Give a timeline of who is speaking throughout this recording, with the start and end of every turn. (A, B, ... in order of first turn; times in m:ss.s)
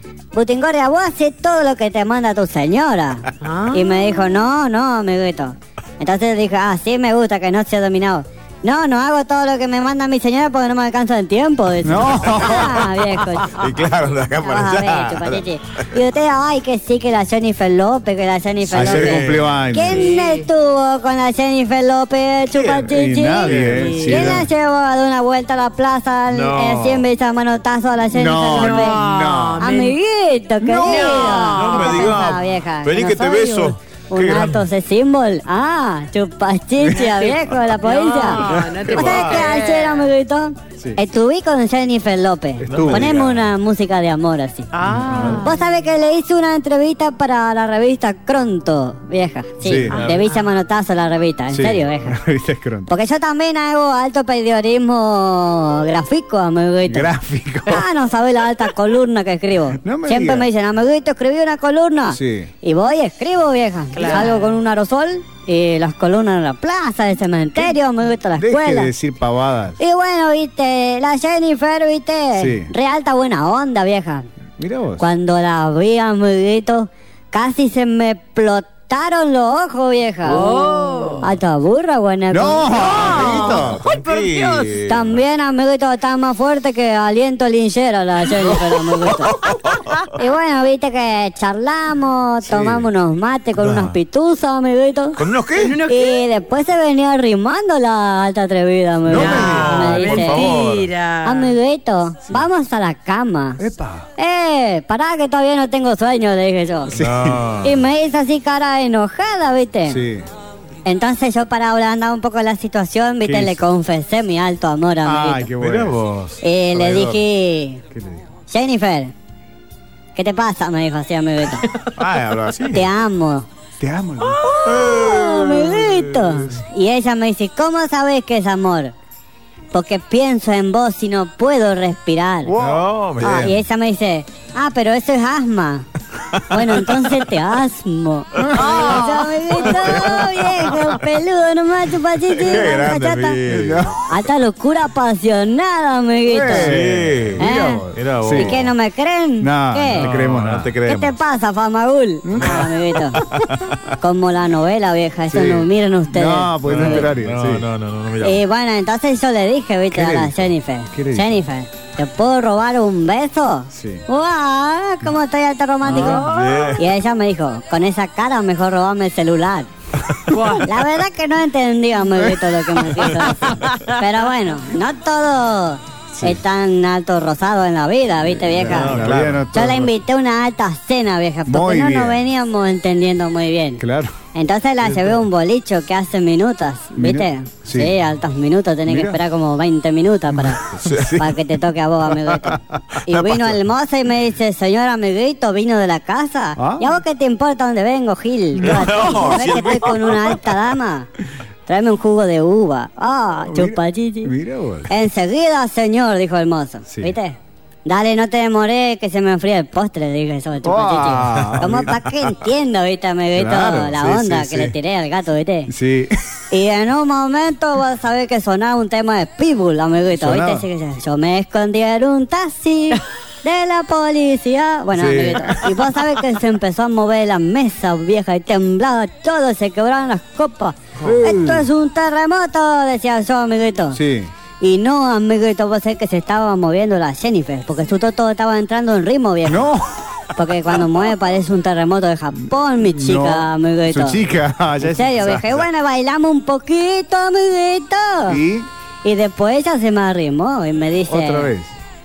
0:00.3-0:13.7 A
0:03.4-0:04.2 B
0:11.8-0:12.9 C
0:12.6-0:16.0 D
0:14.3-0:29.1 A
0:18.7-0:19.4 D
0:18.7-0:20.2 C
0:19.9-0:20.5 B
0:22.5-0:24.5 D
0:22.9-0:24.5 C
0:23.7-0:24.2 B
0:26.3-0:27.1 D
0:28.1-0:29.7 C
0:28.5-0:30.0 B
0:29.6-0:52.2 A
0:30.6-0:32.1 B
0:31.0-0:34.7 D
0:37.0-0:40.2 B
0:38.4-0:39.5 D
0:42.6-0:43.2 C
0:42.6-0:43.5 D
0:44.7-0:45.6 B
0:44.9-0:45.5 C
0:49.6-0:50.1 C
0:49.9-0:50.4 B
0:51.5-0:52.9 C
0:52.9-0:57.1 A
0:56.9-0:57.9 C
0:57.6-1:08.9 A
0:59.8-1:00.5 C
1:02.1-1:02.5 C
1:04.0-1:04.4 B
1:08.4-1:09.8 C
1:09.8-1:14.3 A
1:12.4-1:12.7 C
1:14.6-1:15.1 C
1:15.0-1:20.6 A
1:20.2-1:21.3 B
1:21.2-1:23.6 A
1:22.3-1:23.8 C
1:22.7-1:24.8 B
1:22.9-1:25.2 D
1:24.9-1:29.4 A
1:28.4-1:30.0 D
1:30.2-1:35.2 A
1:32.5-1:32.9 D
1:33.6-1:34.0 D
1:35.2-1:35.8 D
1:35.6-1:36.2 B
1:35.8-1:40.6 A
1:39.1-1:40.0 C
1:39.1-1:41.5 B
1:39.4-1:40.9 D
1:41.2-1:43.6 A
1:43.6-1:44.1 C
1:44.2-1:47.0 A
1:46.9-1:47.8 D
1:46.9-1:47.4 C
1:47.6-1:50.0 A
1:49.9-1:50.3 C
1:50.8-1:55.5 A
1:53.2-1:53.6 C
1:55.0-1:56.0 C
1:55.6-1:56.4 D
1:56.4-1:57.8 A
1:56.7-1:57.2 C
1:57.9-1:58.2 C
1:58.5-1:59.1 A
2:00.2-2:01.7 A
2:02.0-2:02.9 D
2:02.7-2:03.5 A
2:03.8-2:04.5 C
2:04.6-2:08.9 A
2:04.6-2:06.6 D
2:09.7-2:12.6 A
2:12.4-2:13.6 C
2:12.6-2:13.6 D
2:13.2-2:15.9 A
2:16.3-2:16.9 D
2:16.5-2:23.4 A
2:18.5-2:20.9 D
2:18.6-2:19.3 B
2:22.2-2:24.0 D
2:23.5-2:24.0 C
2:24.0-2:26.8 A
2:26.3-2:28.6 C
2:26.5-2:28.7 D
2:27.4-2:30.1 A
2:29.4-2:30.7 C
2:29.9-2:31.2 D
2:30.8-2:33.2 A
2:32.2-2:32.7 C
2:32.4-2:33.8 D
2:34.0-2:37.1 A
2:35.3-2:37.7 C
2:36.6-2:38.4 D
2:38.2-2:49.7 A
2:39.9-2:41.4 C
2:43.7-2:44.0 C
2:45.9-2:46.9 D
2:45.9-2:46.7 B
2:50.3-2:50.7 B
2:50.6-3:03.8 A
2:53.4-2:53.8 B
2:58.4-2:59.9 C
2:58.7-2:59.5 D
3:01.5-3:02.2 C
3:03.8-3:04.2 C
3:04.3-3:21.1 A
3:07.0-3:07.9 C
3:08.9-3:09.2 C
3:10.7-3:11.4 D
3:13.0-3:13.6 D
3:16.6-3:17.0 C
3:18.6-3:20.6 D
3:18.7-3:19.3 C
3:21.7-3:24.3 A
3:23.5-3:24.9 C
3:24.9-3:35.7 A
3:26.9-3:27.2 C
3:30.6-3:32.0 C
3:31.4-3:32.3 D
3:33.4-3:34.8 C
3:35.7-3:36.2 C
3:36.5-3:54.0 A
3:40.1-3:40.7 C
3:45.0-3:45.8 D
3:51.0-3:51.7 C
3:53.9-3:54.3 C
3:54.6-3:59.7 A
3:59.5-3:59.8 C
4:00.4-4:04.2 A
4:02.8-4:05.7 C
4:04.8-4:08.4 A
4:08.3-4:08.7 C
4:09.0-4:11.5 A
4:11.1-4:11.7 C